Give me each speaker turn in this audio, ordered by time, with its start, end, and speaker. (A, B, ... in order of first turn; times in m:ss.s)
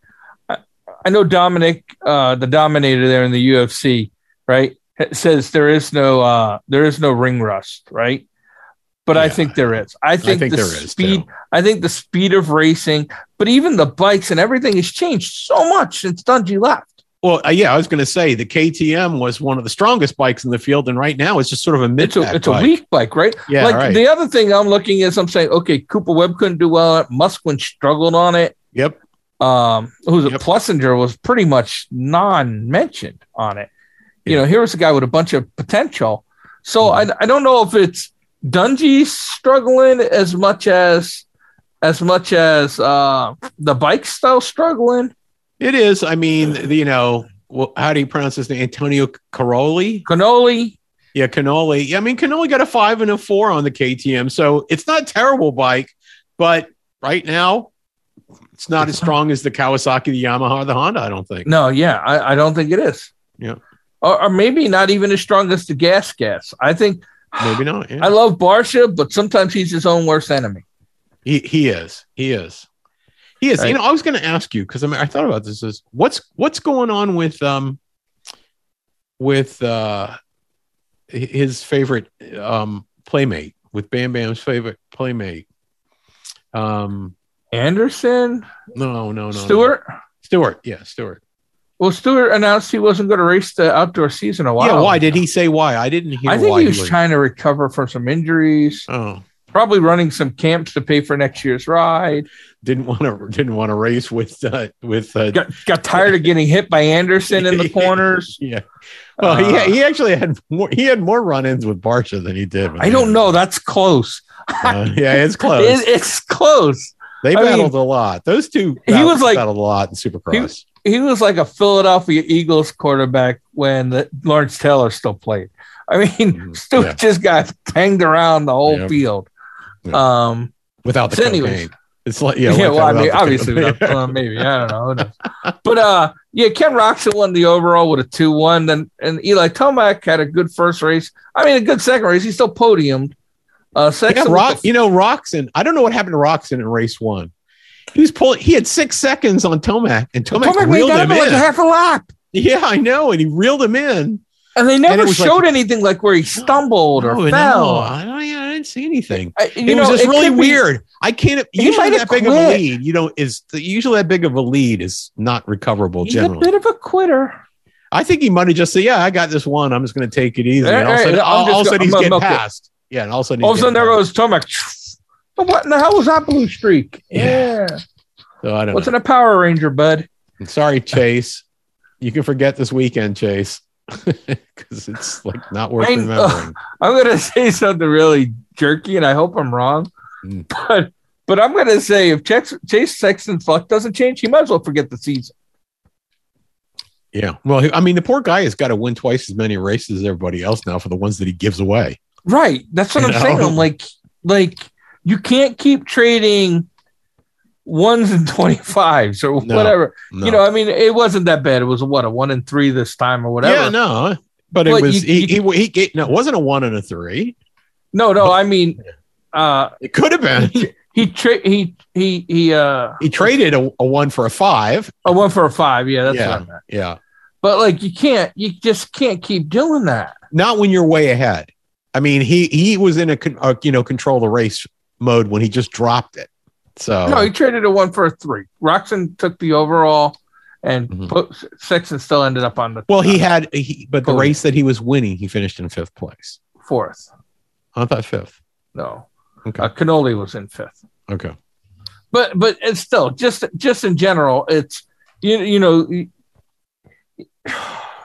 0:00.5-0:08.2 A
0:09.1-0:17.0 A
0:09.1-0:11.3 B
0:17.2-0:22.7 B
0:22.0-0:28.6 A
0:23.5-0:24.0 B
0:29.4-0:33.7 A
0:34.3-0:41.2 A
0:36.8-0:37.1 B
0:41.8-0:45.1 A
0:45.6-0:50.0 B
0:50.0-0:50.8 A
0:51.2-0:57.7 B
0:58.6-1:01.5 B
1:01.5-1:03.1 A
1:04.0-1:10.6 A
1:07.4-1:08.1 B
1:11.2-1:12.7 B
1:13.4-1:17.8 B
1:19.2-1:20.1 B
1:21.1-1:25.5 B
1:26.5-1:27.1 B
1:27.5-1:28.5 A
1:28.8-1:31.2 B
1:29.3-1:29.8 A
1:31.8-1:35.2 A
1:34.6-1:37.0 B
1:36.3-1:38.9 A
1:38.9-1:39.2 B
1:39.5-1:42.3 A
1:42.6-1:46.3 B
1:45.3-1:48.4 A
1:47.4-1:48.6 B
1:49.2-1:49.8 A
1:49.2-1:53.3 B
1:52.8-1:54.8 A
1:54.6-1:55.9 B
1:55.5-1:57.7 A
1:57.2-2:00.6 B
1:58.8-1:59.4 A
2:00.3-2:09.3 A
2:06.4-2:07.0 B
2:08.7-2:08.9 B
2:09.9-2:10.5 A
2:10.8-2:14.4 B
2:11.1-2:11.7 A
2:12.5-2:23.2 A
2:23.8-2:24.6 A
2:24.1-2:27.3 B
2:27.9-2:31.5 B
2:30.4-2:32.1 A
2:32.3-2:34.2 B
2:34.6-2:37.9 A
2:34.9-2:35.4 B
2:37.0-2:46.5 B
2:39.4-2:40.6 A
2:41.6-2:42.6 A
2:46.0-2:47.4 A
2:47.9-2:54.0 B
2:50.6-2:52.4 A
2:53.4-2:57.8 A
2:57.2-2:57.5 B
2:58.4-2:58.9 B
2:58.7-3:00.1 A
3:00.4-3:01.4 B
3:02.0-3:06.6 B
3:05.8-3:09.9 A
3:10.5-3:15.3 A
3:17.1-3:22.0 B
3:22.3-3:26.7 A
3:23.0-3:23.6 B
3:27.6-3:33.8 A
3:29.4-3:30.4 B
3:33.4-3:37.4 B
3:34.7-3:35.4 A
3:37.9-3:39.8 A
3:39.8-3:40.7 B
3:40.4-3:43.1 A
3:43.0-3:45.1 B
3:45.0-3:46.6 A
3:46.1-3:47.0 B
3:47.4-3:50.2 A
3:50.3-3:57.3 B
3:57.0-4:03.2 A
4:02.9-4:06.4 B
4:04.0-4:04.4 A
4:06.6-4:07.1 A
4:07.8-4:08.4 B
4:08.8-4:09.1 A
4:09.6-4:10.8 A
4:11.1-4:11.3 B
4:12.1-4:16.1 A
4:17.4-4:17.8 A